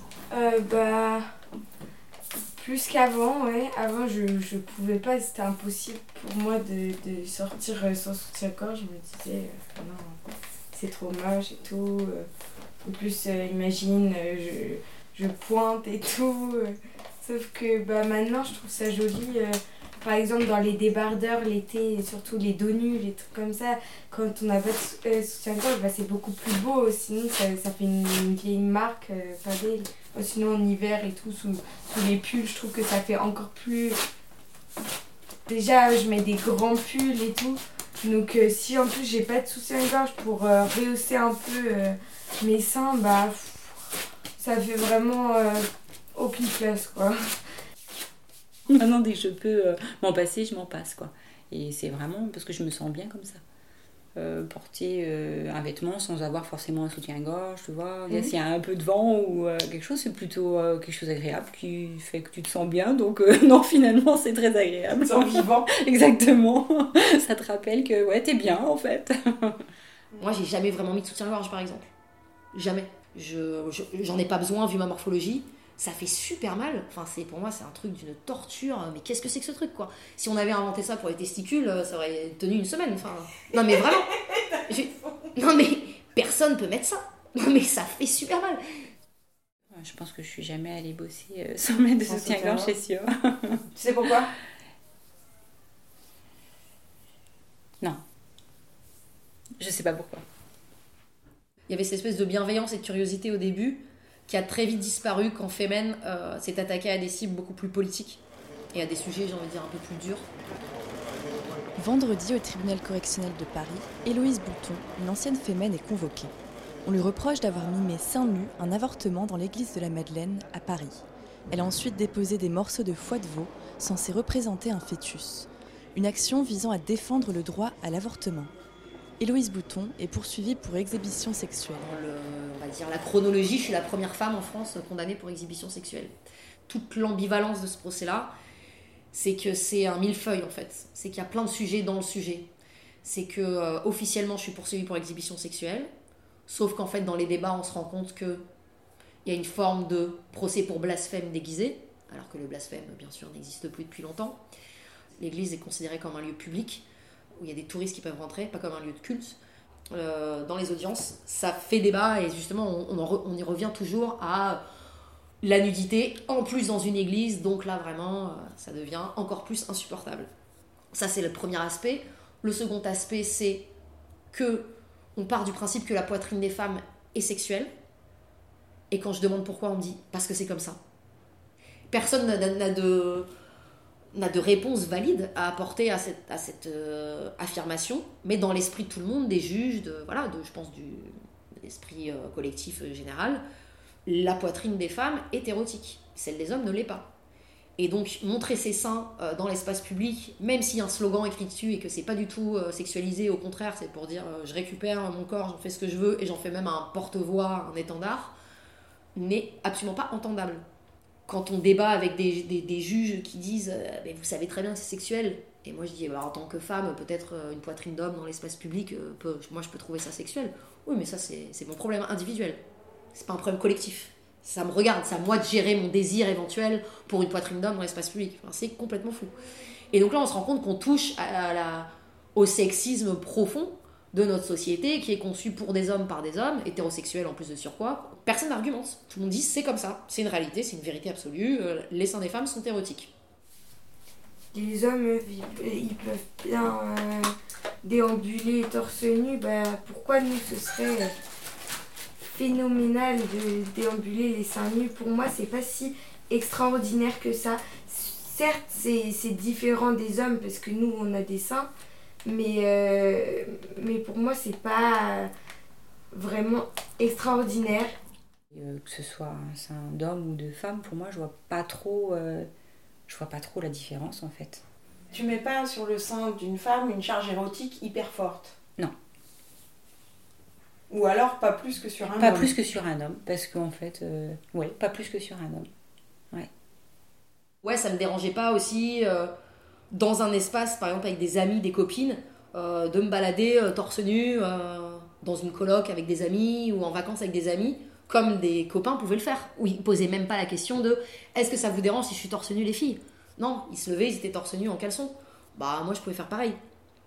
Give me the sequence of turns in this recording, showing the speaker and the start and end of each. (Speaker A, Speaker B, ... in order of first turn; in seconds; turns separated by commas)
Speaker A: 0.3-1.3, Speaker A: 2.6-10.2, Speaker A: 10.7-12.3, Speaker A: 12.8-34.0, Speaker A: 35.5-43.7, Speaker A: 44.4-47.2, Speaker B: 48.7-53.4, Speaker B: 54.1-69.6, Speaker C: 70.2-71.9, Speaker C: 72.5-84.1, Speaker C: 84.7-88.6, Speaker B: 89.7-93.6, Speaker B: 99.6-100.2, Speaker C: 101.7-108.2, Speaker C: 108.7-110.3, Speaker D: 111.8-116.3, Speaker D: 116.8-128.5, Speaker D: 129.2-131.8, Speaker C: 131.8-136.1, Speaker C: 136.7-138.3, Speaker C: 139.1-142.5, Speaker C: 143.0-145.9, Speaker C: 146.5-148.4, Speaker C: 149.2-154.4, Speaker C: 155.2-156.9, Speaker C: 157.4-159.4, Speaker C: 159.9-164.6, Speaker C: 165.4-170.3, Speaker C: 170.9-173.7, Speaker C: 174.3-177.7, Speaker C: 178.9-180.8, Speaker C: 181.9-183.3, Speaker C: 184.1-191.1, Speaker C: 191.6-193.4, Speaker C: 194.1-197.1, Speaker C: 197.8-208.3, Speaker C: 209.2-210.6, Speaker C: 211.3-222.6, Speaker C: 223.1-229.3, Speaker C: 229.9-243.1, Speaker A: 244.5-247.3, Speaker A: 247.8-251.1, Speaker A: 252.2-261.7, Speaker A: 262.2-265.3, Speaker A: 266.1-268.0, Speaker B: 268.5-272.5, Speaker B: 273.1-274.6, Speaker E: 275.1-278.4, Speaker E: 280.9-282.4, Speaker B: 282.0-285.7, Speaker C: 287.6-289.3, Speaker C: 289.9-306.6